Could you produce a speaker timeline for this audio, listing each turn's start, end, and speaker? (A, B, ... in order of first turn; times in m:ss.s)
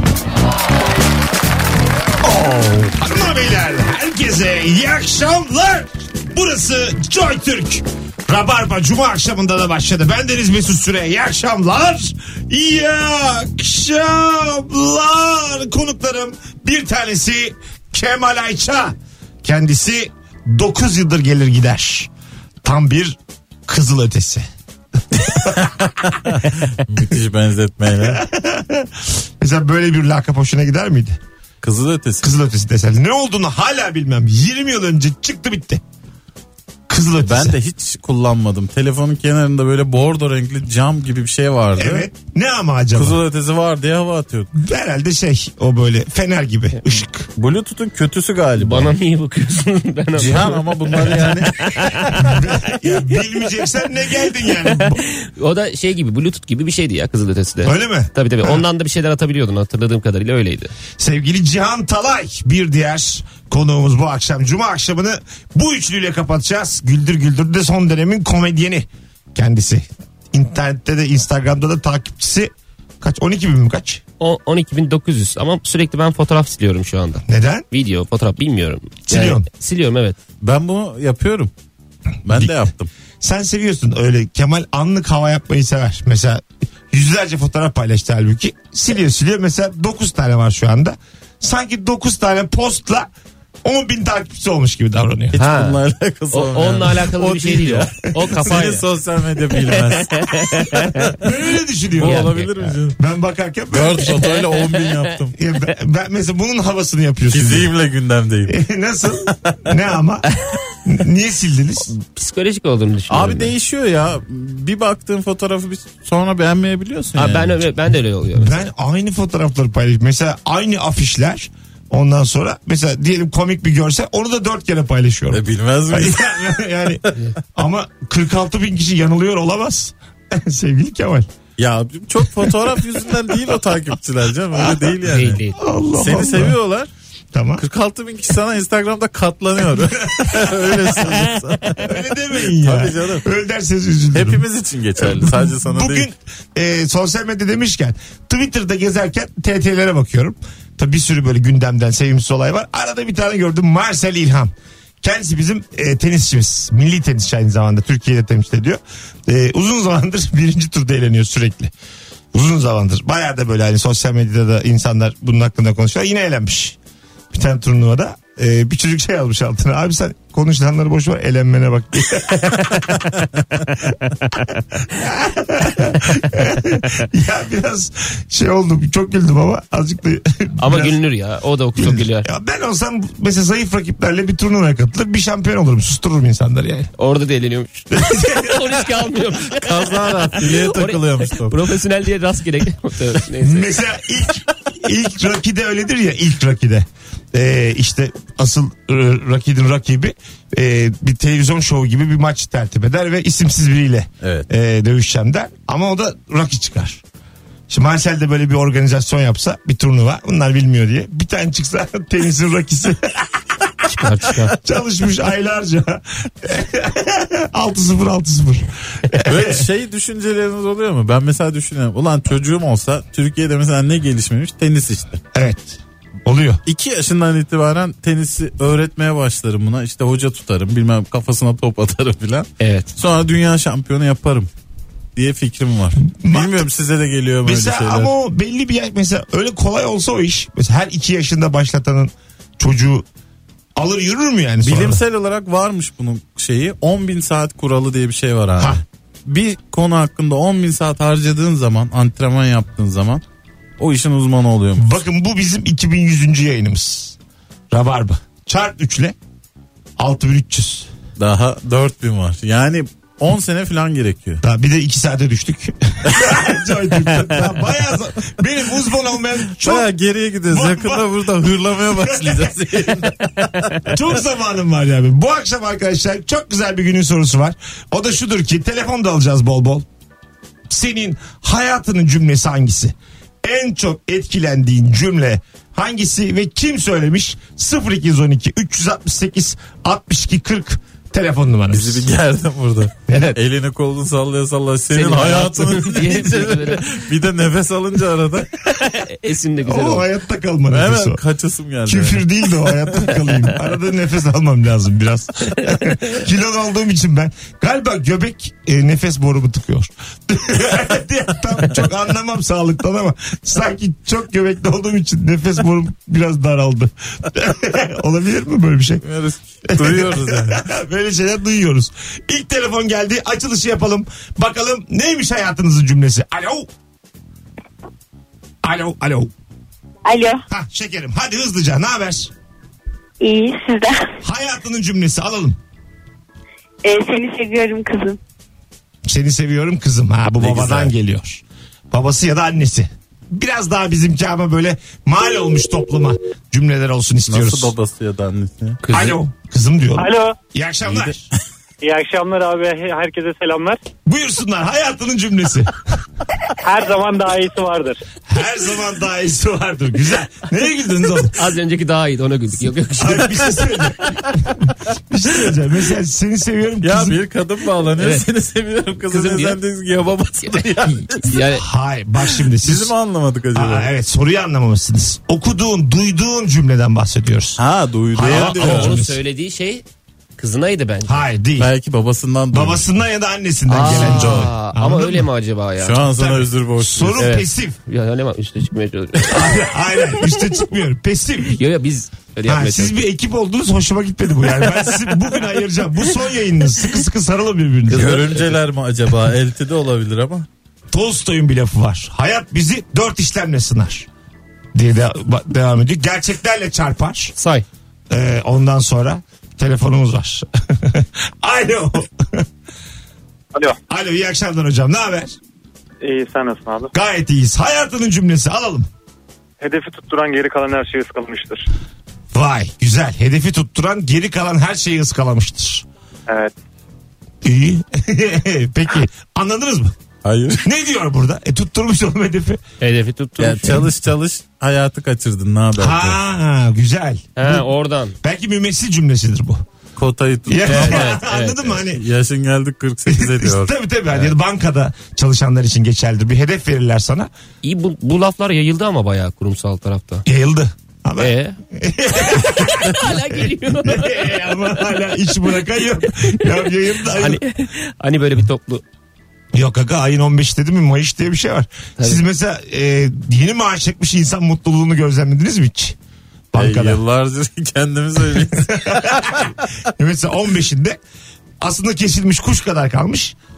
0:02.2-0:22.1 A
0:22.6-0:24.5 A
0:25.1-0:25.7 A
0:25.6-0:28.2 B
0:28.0-0:31.2 A
0:31.6-0:32.3 B
0:32.2-0:35.8 A
0:36.9-0:37.6 A
0:37.2-0:42.1 B
0:41.8-0:43.2 A
0:42.9-0:44.5 B
0:44.6-0:47.3 A
0:47.4-0:49.0 B
0:48.6-0:52.4 C
0:50.2-0:52.1 B
0:52.2-0:55.0 A
0:54.6-1:00.7 C
0:57.6-0:58.6 A
1:01.0-1:14.0 A
1:14.2-1:20.2 C
1:17.2-1:17.7 A
1:19.1-1:19.5 A
1:20.4-1:21.5 B
1:22.2-1:22.9 B
1:22.3-1:22.5 A
1:23.2-1:33.1 A
1:33.6-1:35.4 A
1:35.3-1:40.9 B
1:35.4-1:35.8 C
1:36.3-1:38.9 C
1:39.6-1:41.2 C
1:41.2-1:42.3 A
1:42.0-1:43.0 B
1:42.0-1:42.8 C
1:43.0-1:44.2 A
1:43.7-1:45.4 B
1:44.2-1:45.1 C
1:45.4-1:47.7 A
1:47.3-1:48.6 B
1:48.5-1:50.2 A
1:49.3-1:49.7 B
1:50.8-1:51.9 A
1:51.9-1:53.5 C
1:53.1-1:57.7 B
1:57.2-1:58.7 C
1:58.4-2:11.3 A
2:05.3-2:06.2 B
2:11.6-2:15.4 B
2:15.0-2:15.6 C
2:15.6-2:16.6 A
2:16.0-2:16.9 B
2:17.3-2:17.6 A
2:17.6-2:23.3 B
2:20.1-2:20.7 A
2:21.8-2:24.4 A
2:24.2-2:26.1 B
2:25.0-2:41.7 A
2:42.3-2:46.8 A
2:47.3-2:52.8 A
2:52.4-2:52.8 C
2:54.5-3:01.0 A
3:00.6-3:02.3 C
3:01.8-3:06.9 A
3:07.0-3:13.7 C
3:07.9-3:08.9 A
3:09.4-3:11.7 B
3:13.4-3:27.0 A
3:24.2-3:24.5 B
3:27.7-3:33.3 A
3:33.8-3:34.6 C
3:34.5-3:39.6 A
3:39.2-3:45.2 B
3:45.3-3:46.6 A
3:46.7-3:54.5 B
3:52.6-3:52.9 C
3:55.2-3:58.1 B
3:56.2-3:56.7 A
3:57.4-4:03.1 A
4:03.8-4:05.0 A
4:04.6-4:13.2 B
4:08.6-4:08.8 A
4:13.8-4:15.0 B
4:14.8-4:17.2 A
4:17.7-4:19.2 A
4:20.0-4:20.9 A
4:21.2-4:24.4 B
4:24.4-4:29.9 A
4:29.6-4:33.9 B
4:30.5-4:31.1 A
4:31.9-4:33.1 A
4:33.9-4:39.9 A
4:40.7-4:52.1 A
4:51.7-4:58.7 B
4:53.1-4:53.4 A
4:54.9-4:57.0 C
4:58.7-5:00.0 C
4:59.6-5:01.2 A
5:00.7-5:02.7 B
5:01.9-5:19.0 A
5:19.0-5:20.7 B
5:19.7-5:26.7 A
5:28.6-5:29.3 A
5:30.0-5:30.4 D
5:30.5-5:32.3 A
5:33.2-5:34.1 D
5:34.2-5:35.6 A
5:36.8-5:38.2 D
5:39.1-5:47.7 A
5:40.4-5:40.9 B
5:47.3-5:48.8 B
5:48.8-5:49.2 C
5:48.9-5:51.2 A
5:50.0-5:50.4 E
5:50.8-5:51.1 B
5:51.8-5:53.8 E
5:54.1-5:55.8 A
5:56.6-5:58.0 E
5:58.3-6:01.4 A
6:01.3-6:03.6 C
6:03.0-6:07.2 A
6:06.8-6:11.3 B
6:07.6-6:08.2 C
6:09.1-6:09.6 C
6:10.4-6:11.7 C
6:11.6-6:12.9 A
6:12.3-6:13.9 B
6:13.6-6:17.6 A
6:17.6-6:19.0 B
6:18.1-6:19.2 A
6:18.3-6:19.8 C
6:20.4-6:21.2 C
6:21.1-6:21.7 A
6:21.6-6:22.9 B
6:22.5-6:25.3 A
6:23.7-6:26.1 C
6:23.8-6:24.5 B
6:25.8-6:27.3 B
6:26.2-6:27.8 A
6:27.2-6:30.2 C
6:29.3-6:31.6 A
6:31.5-6:33.0 C
6:32.5-6:38.5 A
6:37.9-6:40.5 B
6:40.9-6:44.1 A
6:44.7-6:47.3 A
6:47.4-6:47.6 C
6:48.1-6:52.5 A
6:53.9-6:55.4 A
6:56.0-6:56.9 E
6:56.9-6:58.9 A
6:59.6-7:01.6 E
7:02.3-7:05.9 A
7:06.3-7:06.5 E
7:07.4-7:10.0 A
7:10.2-7:10.6 B
7:10.6-7:12.6 A
7:12.8-7:13.9 C
7:13.4-7:16.2 B
7:15.8-7:17.7 A
7:17.4-7:18.2 C
7:18.2-7:19.6 A
7:20.0-7:21.2 B
7:20.5-7:22.0 A
7:20.6-7:21.7 C
7:21.8-7:23.7 B
7:23.1-7:27.3 A
7:27.6-7:30.2 C
7:30.3-7:37.4 A
7:31.2-7:31.6 C
7:32.2-7:34.8 C
7:37.0-7:38.8 C
7:39.5-7:46.0 A
7:46.5-7:47.0 A
7:46.6-7:49.5 B
7:48.4-7:51.0 A
7:51.6-7:53.4 A